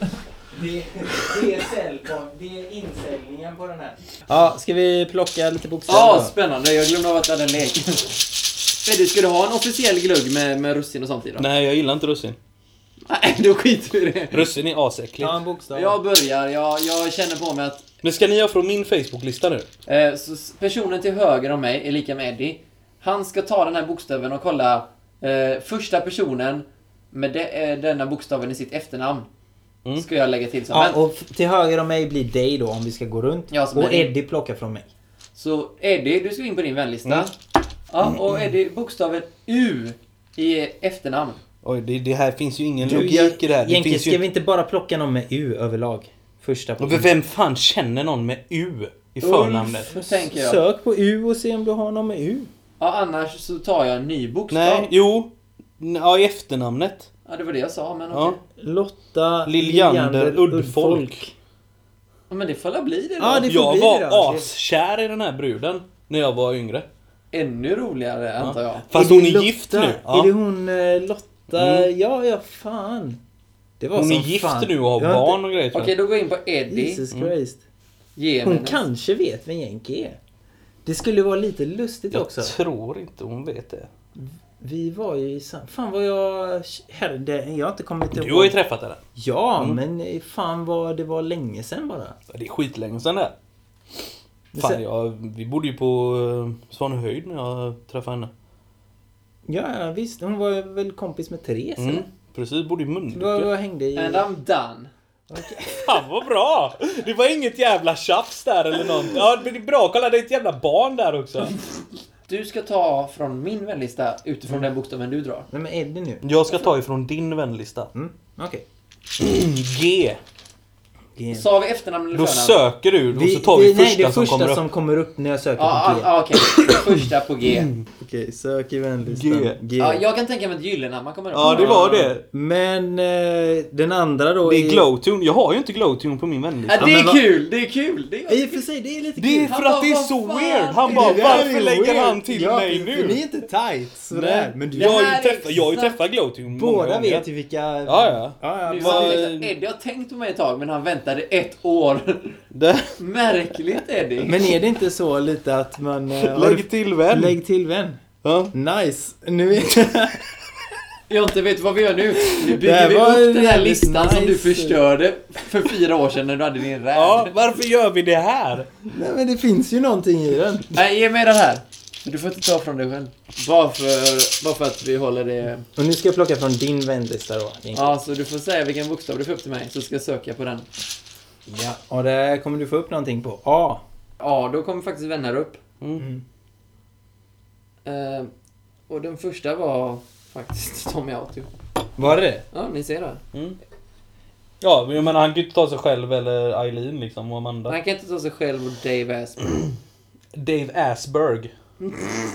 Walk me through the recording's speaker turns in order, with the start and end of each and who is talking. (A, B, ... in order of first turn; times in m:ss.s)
0:00.5-0:06.3 A
0:05.9-0:08.3 B
0:08.8-0:11.5 B
0:11.4-0:12.4 C
0:13.1-0:14.5 B
0:14.3-0:15.4 C
0:15.2-0:16.0 A
0:15.7-0:17.8 B
0:18.0-0:19.6 C
0:19.8-0:29.3 B
0:30.0-0:31.0 B
0:30.7-0:34.9 A
0:33.5-0:34.1 B
0:35.3-0:37.3 B
0:37.9-0:41.4 B
0:41.6-0:44.2 C
0:42.8-0:47.1 A
0:46.8-0:49.9 C
0:49.2-0:50.6 B
0:49.9-0:52.5 A
0:52.8-0:54.9 B
0:54.5-0:57.1 C
0:57.2-0:58.4 B
0:58.1-0:58.4 C
0:58.6-1:01.3 A
0:59.4-1:01.2 C
1:02.3-1:03.5 B
1:03.2-1:04.4 A
1:03.4-1:06.8 C
1:07.3-1:08.9 B
1:08.4-1:10.3 C
1:08.9-1:13.2 A
1:11.6-1:11.9 C
1:13.8-1:15.4 A
1:13.9-1:15.9 C
1:15.7-1:17.0 B
1:16.7-1:17.6 A
1:18.2-1:18.8 B
1:18.4-1:20.2 A
1:20.8-1:22.5 A
1:22.1-1:23.9 C
1:24.2-1:28.6 A
1:28.1-1:29.0 C
1:29.1-1:32.2 A
1:32.3-1:33.3 C
1:34.5-1:34.8 A
1:34.6-1:38.3 C
1:39.5-1:42.0 A
1:41.8-1:43.5 C
1:43.1-1:44.3 A
1:43.9-1:44.9 B
1:45.3-1:46.0 A
1:45.7-1:51.6 C
1:52.3-1:55.5 B
1:55.5-1:56.2 A
1:56.2-1:57.9 C
1:57.9-1:58.6 A
1:59.2-2:00.2 C
2:01.2-2:01.4 A
2:01.3-2:02.6 B
2:02.1-2:04.6 C
2:03.1-2:06.1 A
2:05.6-2:07.7 B
2:06.4-2:07.8 C
2:08.0-2:10.0 A
2:09.0-2:09.6 C
2:09.8-2:12.1 B
2:11.3-2:12.2 C
2:11.4-2:14.8 A
2:14.4-2:16.9 C
2:16.6-2:18.6 B
2:16.8-2:17.2 A
2:18.3-2:19.6 A
2:19.2-2:23.2 C
2:19.5-2:21.5 B
2:20.8-2:25.2 A
2:24.1-2:27.2 C
2:24.7-2:26.0 B
2:26.5-2:29.2 A
2:27.8-2:29.5 C
2:28.6-2:32.4 B
2:32.5-2:32.9 C
2:33.0-2:34.4 B
2:34.2-2:38.0 A
2:36.2-2:37.3 C
2:38.2-2:38.5 C
2:38.5-2:40.3 A
2:41.1-2:47.3 B
2:42.4-2:44.8 A
2:46.9-2:48.7 C
2:48.9-2:50.7 A
2:50.7-2:55.6 B
2:55.8-2:58.0 A
2:57.7-3:00.7 B
3:01.5-3:03.8 A
3:04.2-3:05.6 B
3:06.0-3:06.2 A
3:07.8-3:08.3 B
3:08.9-3:11.5 B
3:12.0-3:12.4 A
3:12.5-3:13.2 B
3:14.6-3:17.8 C
3:17.7-3:19.6 B
3:20.3-3:21.5 C